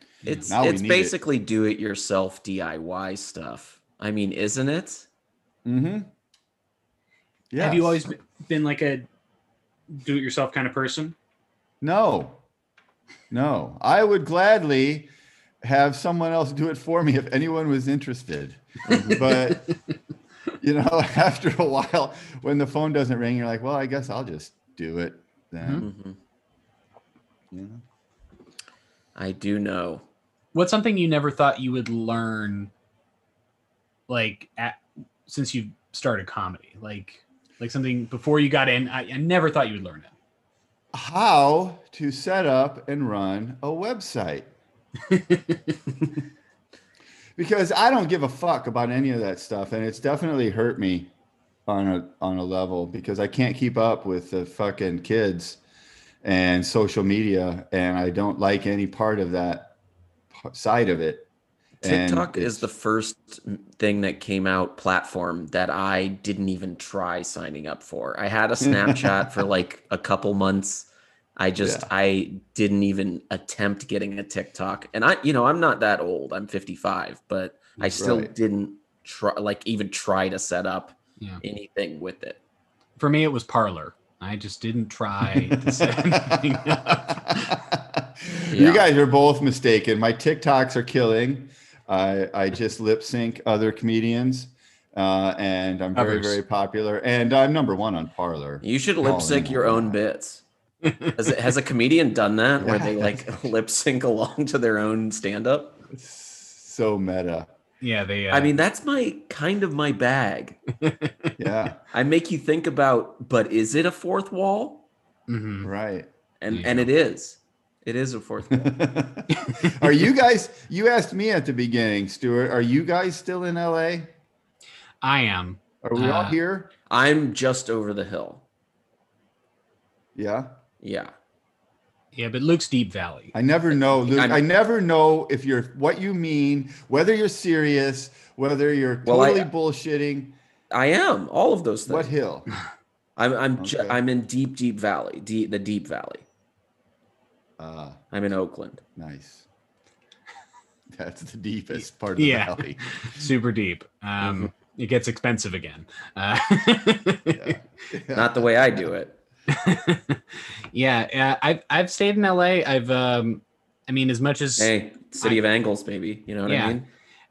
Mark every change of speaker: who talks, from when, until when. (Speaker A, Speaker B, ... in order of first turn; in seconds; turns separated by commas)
Speaker A: 0.2-0.5, Speaker B: 0.2-5.1, Speaker C: 0.5-1.1, Speaker C: 5.6-6.1, Speaker C: 7.5-8.0, Speaker A: 7.6-9.1, Speaker A: 9.9-11.1, Speaker C: 11.8-12.4, Speaker C: 13.3-15.1, Speaker C: 15.6-19.7, Speaker B: 18.9-19.3, Speaker C: 20.6-25.9, Speaker B: 25.8-26.2, Speaker C: 27.5-27.8, Speaker B: 29.1-30.0, Speaker A: 30.5-32.7, Speaker A: 34.1-40.1, Speaker C: 40.9-44.5, Speaker A: 45.1-45.8, Speaker C: 47.4-51.1, Speaker C: 51.7-55.6, Speaker C: 56.2-59.7, Speaker C: 60.3-61.3, Speaker B: 61.8-82.4, Speaker C: 61.8-62.6, Speaker C: 68.6-69.4, Speaker C: 71.6-71.9, Speaker C: 78.0-78.3, Speaker A: 83.0-87.6, Speaker C: 85.3-100.0, Speaker B: 88.5-88.8, Speaker A: 95.9-96.4, Speaker B: 98.6-100.4, Speaker A: 100.8-101.1, Speaker B: 101.1-105.8, Speaker C: 102.6-103.5, Speaker C: 105.9-107.5, Speaker A: 107.8-108.6, Speaker B: 108.3-110.6, Speaker A: 110.8-111.3, Speaker C: 111.4-111.8, Speaker B: 111.9-114.8, Speaker A: 115.3-115.7, Speaker C: 115.6-116.1, Speaker B: 116.4-118.8, Speaker A: 116.5-116.9, Speaker C: 118.5-124.1, Speaker A: 119.3-119.8, Speaker A: 125.0-126.4, Speaker C: 125.8-126.7, Speaker B: 126.9-128.4, Speaker C: 130.1-130.5, Speaker B: 130.8-131.1, Speaker A: 132.1-133.3, Speaker C: 133.3-140.4, Speaker B: 134.1-134.4, Speaker B: 139.0-139.5, Speaker B: 140.7-142.1, Speaker C: 141.9-142.5, Speaker B: 143.2-146.2, Speaker C: 143.6-144.0, Speaker C: 147.6-148.0, Speaker B: 148.1-148.8, Speaker C: 148.9-149.4, Speaker C: 150.9-152.9, Speaker A: 152.2-157.6, Speaker B: 154.2-154.5, Speaker C: 157.3-158.9, Speaker B: 158.1-159.2, Speaker A: 159.5-165.4, Speaker B: 164.6-166.9, Speaker A: 166.4-166.8